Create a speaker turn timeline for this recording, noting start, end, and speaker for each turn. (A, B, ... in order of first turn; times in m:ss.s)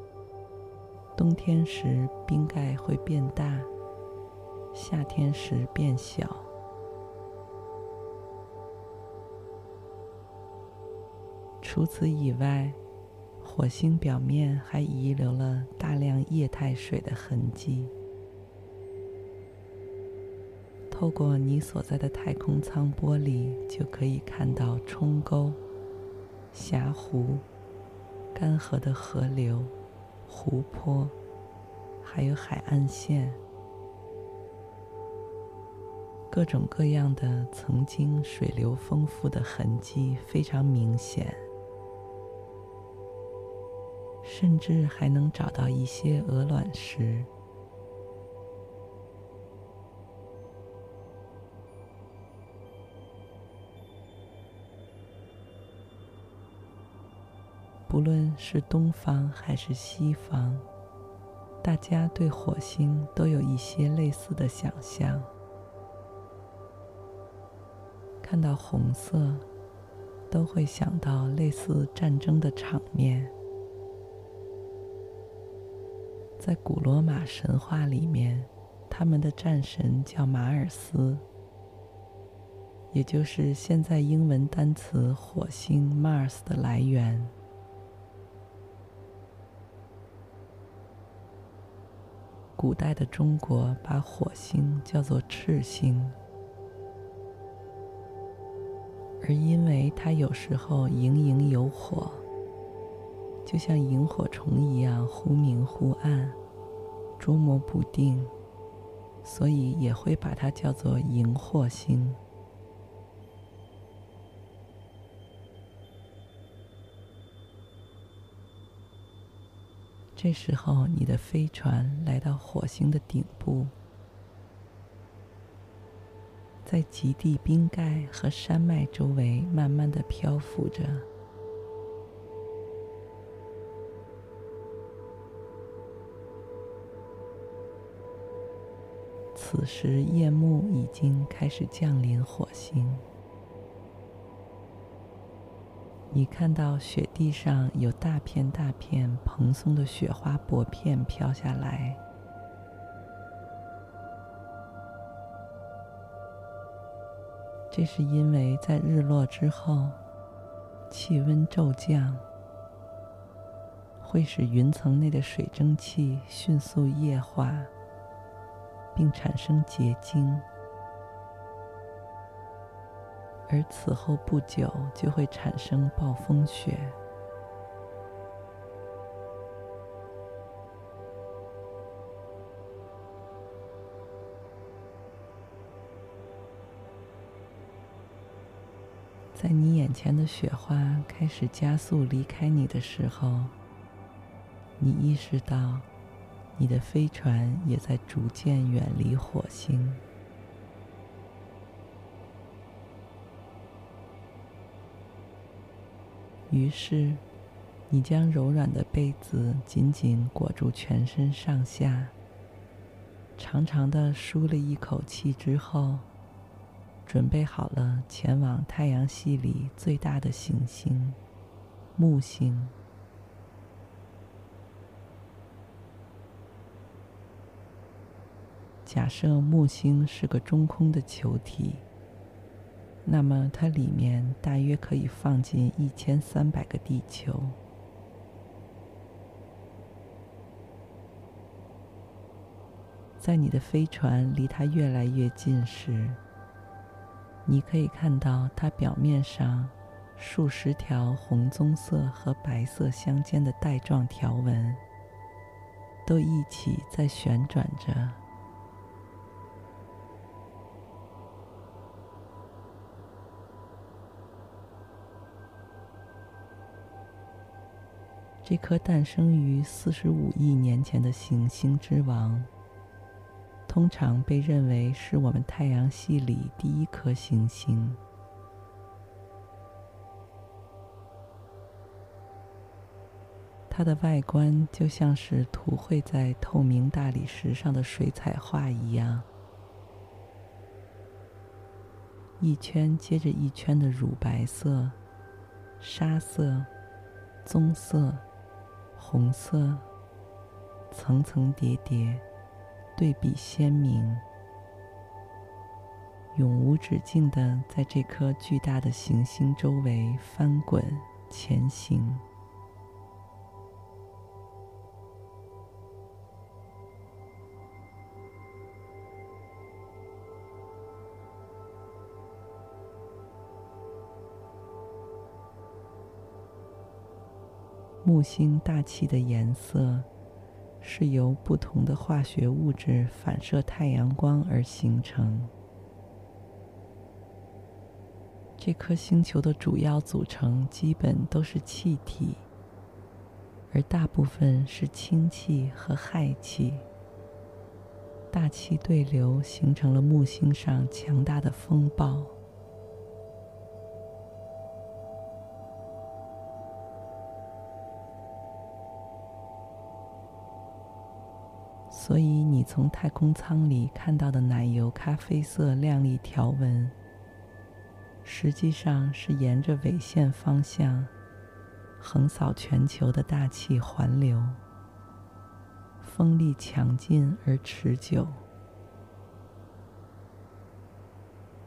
0:01.2-0:03.7 A
0:04.7-0:06.5 A
0:11.6-0:12.8 A
0:13.4-0:17.9 A
0:20.9-0:25.6 A
0:26.5-0:27.4 A
0:28.3-0:29.8 A
0:30.3-0:31.2 A
0:32.0-0:33.4 A
0:36.3-0:41.4 A
0:44.2-0:47.3 A
0:57.9-1:00.7 A
1:01.6-1:05.3 A
1:08.2-1:09.5 A
1:10.3-1:13.3 A
1:16.4-1:21.2 A
1:22.9-1:27.4 A
1:32.6-1:36.2 A
1:39.2-1:42.2 A
1:43.4-1:46.4 A
1:47.2-1:48.3 A
1:49.2-1:52.2 A
2:00.2-2:03.7 A
2:06.6-2:11.1 A
2:19.3-2:23.1 A
2:26.1-2:32.0 A
2:37.7-2:40.0 A
2:40.9-2:42.3 A
2:44.0-2:47.7 A
2:49.0-2:50.5 A
2:53.5-2:57.0 A
3:09.3-3:13.6 A
3:14.8-3:15.9 A
3:16.6-3:20.0 A
3:26.5-3:27.2 A
3:27.9-3:32.2 A
3:33.4-3:36.1 A
3:37.0-3:41.2 A
3:42.0-3:42.8 A
3:48.8-3:51.8 A
3:53.0-3:57.6 A
4:03.2-4:06.2 A
4:07.4-4:14.8 A
4:16.1-4:18.2 A
4:28.4-4:32.5 A
4:33.7-4:38.0 A
4:43.7-4:49.3 A
4:52.4-4:55.0 A
4:55.8-4:56.7 A
4:57.4-4:58.2 A
4:59.0-4:59.9 A
5:00.9-5:02.2 A
5:03.0-5:04.2 A
5:06.3-5:12.2 A
5:28.0-5:30.1 A
5:30.8-5:35.5 A
5:38.6-5:42.4 A
5:43.7-5:46.9 A
5:48.3-5:52.4 A
6:01.9-6:07.0 A
6:08.2-6:11.1 A
6:12.0-6:14.6 A
6:16.0-6:18.4 A